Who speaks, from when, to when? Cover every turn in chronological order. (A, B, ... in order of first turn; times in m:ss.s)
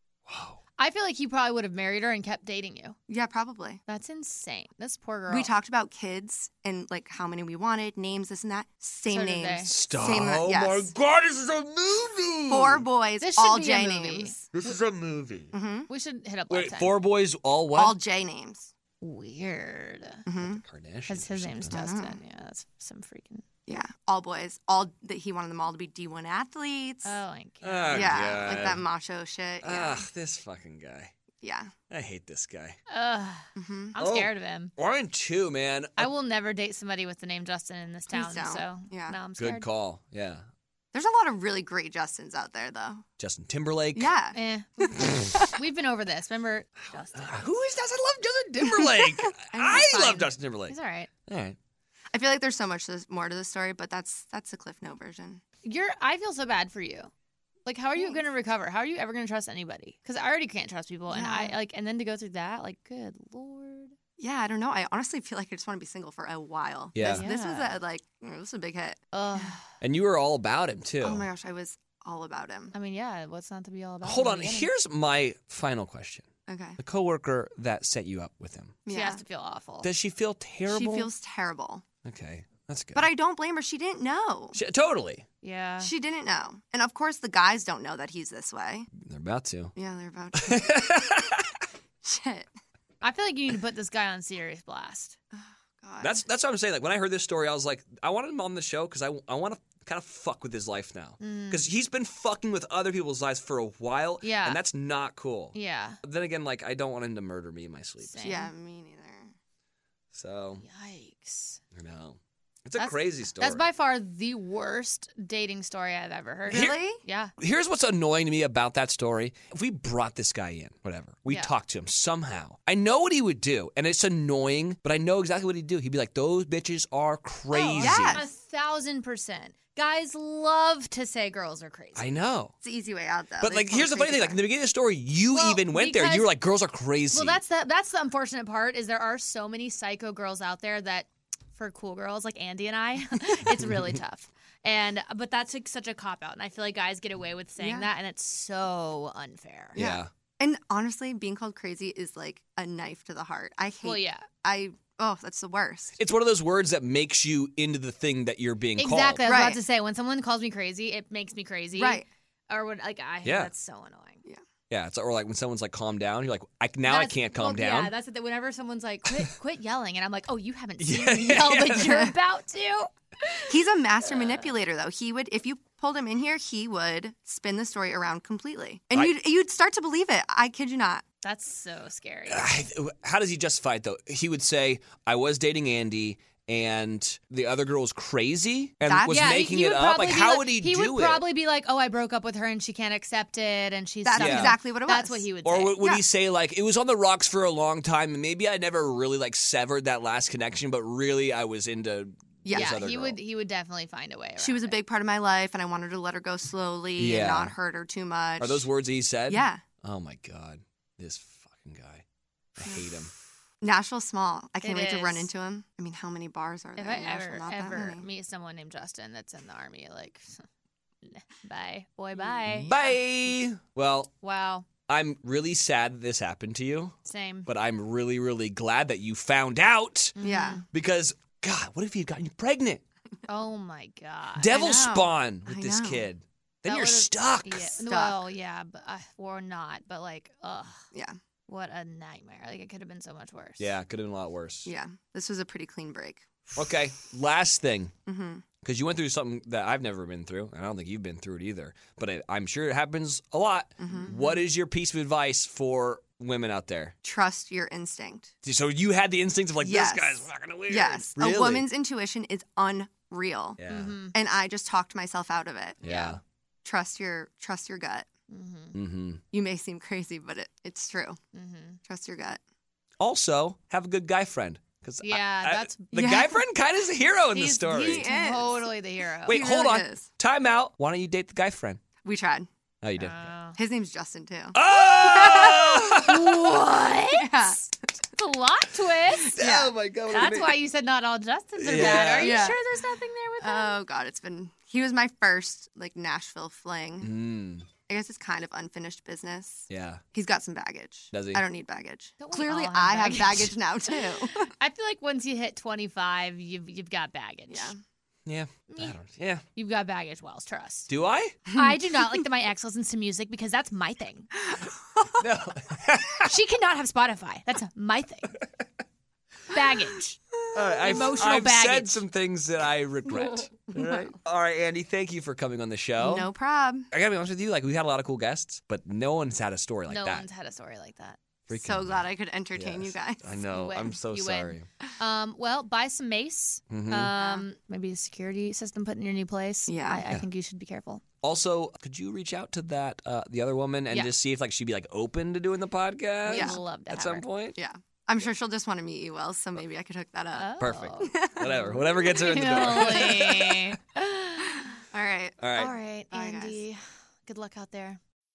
0:00.3-0:00.6 A
0:00.8-0:03.0 B
0:03.1-0:03.8 C
0:03.9-0:05.5 B
0:05.3-0:10.9 C
0:09.1-0:09.7 B
0:09.6-0:12.8 A
0:12.5-0:14.5 C
0:13.2-0:14.7 B
0:14.5-0:15.5 A
0:15.5-0:15.9 C
0:15.9-0:16.9 B
0:16.5-0:18.0 A
0:17.7-0:18.7 C
0:19.0-0:20.2 B
0:20.3-0:20.6 C
0:20.4-0:21.8 A
0:21.1-0:23.4 B
0:21.7-0:22.2 C
0:23.7-0:27.2 C
0:27.0-0:28.3 B
0:27.6-0:28.8 A
0:27.9-0:30.0 C
0:29.6-0:31.1 A
0:31.4-0:31.7 C
0:31.9-0:32.8 A
0:32.9-0:34.7 B
0:33.6-0:33.9 C
0:34.0-0:36.1 A
0:36.0-0:39.7 B
0:38.1-0:39.2 C
0:39.4-0:40.4 A
0:40.9-0:43.0 C
0:43.2-0:44.1 A
0:43.9-0:45.6 C
0:44.3-0:47.5 B
0:45.0-0:45.4 A
0:46.9-0:50.8 A
0:48.6-0:50.3 C
0:49.8-0:51.1 B
0:51.3-0:51.6 A
0:52.1-0:55.4 C
0:55.6-0:57.1 B
0:57.6-1:03.9 B
0:58.0-0:58.2 C
1:01.1-1:01.6 C
1:04.2-1:09.6 C
1:06.9-1:07.2 A
1:07.0-1:07.8 B
1:09.1-1:09.6 B
1:09.8-1:11.2 A
1:11.0-1:12.7 C
1:12.7-1:14.7 B
1:14.0-1:16.3 A
1:16.5-1:16.8 C
1:16.8-1:18.8 A
1:18.8-1:19.2 C
1:18.9-1:19.9 B
1:19.8-1:21.1 A
1:20.7-1:21.8 C
1:22.0-1:23.1 A
1:22.9-1:24.6 C
1:24.5-1:25.2 A
1:25.4-1:25.9 B
1:25.8-1:28.9 C
1:29.0-1:29.7 A
1:29.8-1:31.2 C
1:30.3-1:31.6 A
1:32.0-1:32.5 C
1:33.0-1:35.2 B
1:35.3-1:36.2 C
1:36.0-1:48.2 A
1:41.2-1:41.6 B
1:44.2-1:44.6 B
1:45.5-1:46.0 B
1:48.0-1:48.5 B
1:48.2-1:49.3 C
1:50.1-1:50.6 A
1:50.6-1:51.6 B
1:51.7-1:53.6 A
1:52.8-1:57.3 B
1:56.5-1:56.8 A
1:56.5-1:57.0 C
1:57.4-2:08.2 A
2:01.3-2:01.5 B
2:07.5-2:12.1 B
2:07.8-2:08.3 C
2:12.0-2:12.5 A
2:12.6-2:14.4 C
2:13.4-2:17.4 A
2:15.3-2:16.3 B
2:17.1-2:29.8 B
2:27.6-2:27.9 C
2:29.8-2:30.1 A
2:29.8-2:36.0 C
2:33.8-2:34.2 B
2:36.0-2:39.2 A
2:38.8-2:44.2 B
2:39.2-2:39.6 C
2:41.7-2:42.1 C
2:43.2-2:43.5 A
2:44.7-2:47.9 A
2:46.8-2:54.5 B
2:50.8-2:52.0 A
2:51.8-2:52.1 C
2:53.5-3:01.0 C
3:01.2-3:02.6 B
3:02.3-3:11.2 A
3:08.9-3:09.5 C
3:09.1-3:15.8 B
3:14.0-3:15.2 C
3:14.2-3:14.6 A
3:15.4-3:23.2 A
3:22.4-3:22.8 C
3:22.5-3:24.8 B
3:24.4-3:28.7 C
3:27.0-3:27.5 A
3:28.4-3:32.0 A
3:29.3-3:29.6 C
3:32.6-3:33.1 A
3:33.6-3:38.0 C
3:34.6-3:35.3 B
3:36.8-3:40.4 B
3:41.0-3:42.8 B
3:42.6-3:44.1 A
3:44.2-3:44.6 B
3:44.9-3:46.9 A
3:47.0-3:47.5 B
3:47.4-3:50.1 A
3:50.2-3:50.6 B
3:50.2-3:50.6 C
3:50.7-3:52.8 A
3:53.2-3:54.6 B
3:54.4-3:57.8 A
3:54.5-3:56.0 C
3:56.6-4:00.8 B
3:57.8-3:58.2 C
4:01.5-4:03.7 B
4:03.6-4:04.7 A
4:04.6-4:06.3 C
4:06.5-4:07.9 A
4:08.0-4:08.4 C
4:08.6-4:16.9 A
4:13.8-4:14.2 C
4:17.0-4:18.3 C
4:18.4-4:21.6 A
4:19.6-4:23.6 C
4:23.6-4:24.0 A
4:23.7-4:24.1 B
4:24.1-4:25.8 C
4:25.8-4:26.2 A
4:25.8-4:26.2 B
4:26.6-4:28.1 C
4:28.3-4:28.8 B
4:28.7-4:29.2 A
4:29.3-4:31.2 C
4:31.3-4:31.8 B
4:31.9-4:32.4 C
4:33.0-4:38.1 A
4:35.0-4:36.2 B
4:35.9-4:36.4 C
4:37.3-4:39.4 B
4:37.8-4:38.6 C
4:39.2-4:41.8 A
4:39.3-4:40.1 C
4:42.0-4:42.5 C
4:42.8-4:43.3 A
4:43.0-4:43.6 B
4:43.6-4:47.6 C
4:44.5-4:46.5 A
4:46.0-4:49.4 B
4:49.2-4:49.7 C
4:49.3-4:50.6 A
4:50.1-4:53.8 B
4:51.6-4:52.4 A
4:51.7-4:52.6 C
4:53.4-4:57.1 C
4:57.0-4:57.7 A
4:57.9-5:04.5 C
4:59.7-5:00.0 A
5:01.1-5:01.4 A
5:02.2-5:03.5 B
5:04.5-5:07.7 B
5:07.5-5:07.8 C
5:08.2-5:09.4 A
5:08.7-5:09.0 B
5:09.5-5:10.9 B
5:10.9-5:11.4 A
5:11.5-5:11.8 C
5:11.5-5:14.3 B
5:14.5-5:15.2 C
5:15.2-5:16.3 A
5:16.2-5:18.4 B
5:19.5-5:20.2 B
5:20.5-5:26.3 A
5:20.8-5:22.0 B
5:23.7-5:24.1 C
5:26.0-5:26.9 C
5:26.9-5:30.3 A
5:29.9-5:31.2 B
5:31.5-5:32.0 A
5:31.5-5:33.3 C
5:32.5-5:34.7 A
5:33.5-5:41.0 B
5:36.7-5:37.1 A
5:37.1-5:37.4 C
5:39.7-5:40.0 C
5:41.2-5:47.6 A
5:46.2-5:47.2 B
5:46.3-5:46.6 C
5:47.6-5:51.6 C
5:50.3-5:54.8 B
5:50.6-5:53.8 A
5:54.7-5:55.4 C
5:55.4-5:55.7 A
5:55.6-5:58.0 B
5:56.1-5:56.6 C